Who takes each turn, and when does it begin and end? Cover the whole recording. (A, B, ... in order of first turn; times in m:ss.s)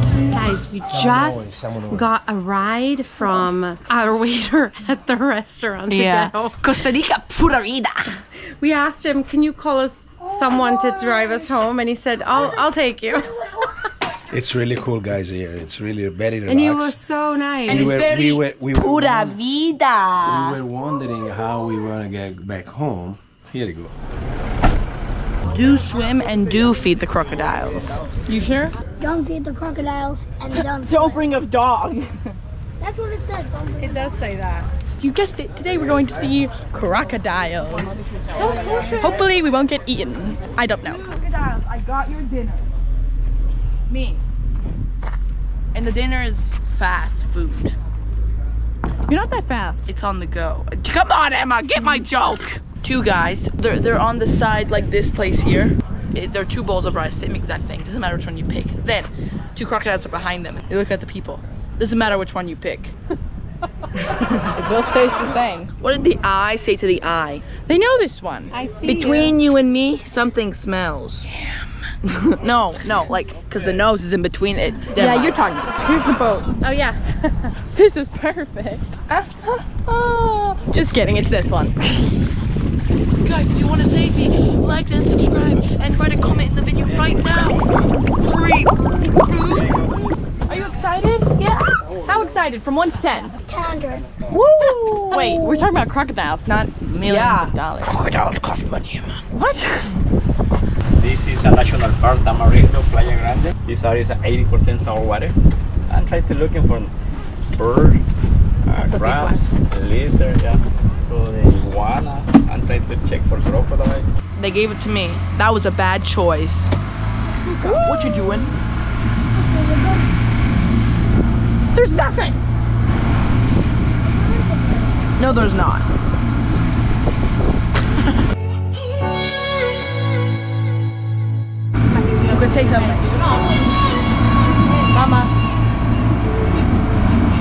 0:00.3-0:06.6 A
0:00.8-0:02.1 B
0:05.9-0:08.1 C
0:08.3-0:13.3 A
0:10.3-0:11.5 D
0:13.3-0:13.7 D
0:14.3-0:17.0 B
0:16.5-0:18.0 A
0:17.7-0:19.4 B
0:17.7-0:20.6 C
0:20.2-0:23.9 B
0:25.5-0:28.1 C
0:28.2-0:28.8 E
0:29.0-0:31.2 D
0:30.5-0:32.1 C
0:32.8-0:34.1 D
0:33.8-0:34.7 A
0:35.0-0:41.2 E
0:38.3-0:39.2 A
0:38.4-0:38.9 D
0:41.1-0:42.6 C
0:43.9-0:44.2 C
0:45.7-0:47.8 C
0:49.1-0:49.9 E
0:49.9-1:03.0 C
1:04.4-1:05.7 E
1:05.8-1:07.7 C
1:07.6-1:08.5 E
1:08.5-1:09.4 A
1:08.8-1:11.3 C
1:11.3-1:11.6 E
1:12.0-1:15.4 C
1:14.9-1:16.5 E
1:16.6-1:17.6 A
1:17.7-1:22.1 E
1:23.2-1:27.7 C
1:28.2-1:29.6 C
1:30.5-1:33.4 E
1:33.4-1:34.1 D
1:34.3-1:37.9 E
1:37.0-1:39.2 C
1:39.3-1:40.0 E
1:41.0-1:45.4 F
1:45.9-1:46.9 F
1:47.6-1:48.0 F
1:48.7-1:54.1 F
1:48.9-1:49.4 A
1:54.4-1:56.7 C
1:57.6-1:58.2 E
1:57.7-1:58.6 C
1:59.4-2:00.1 D
2:01.7-2:02.4 E
2:04.2-2:04.9 D
2:05.2-2:05.9 C
2:12.2-2:13.6 C
2:14.9-2:15.3 C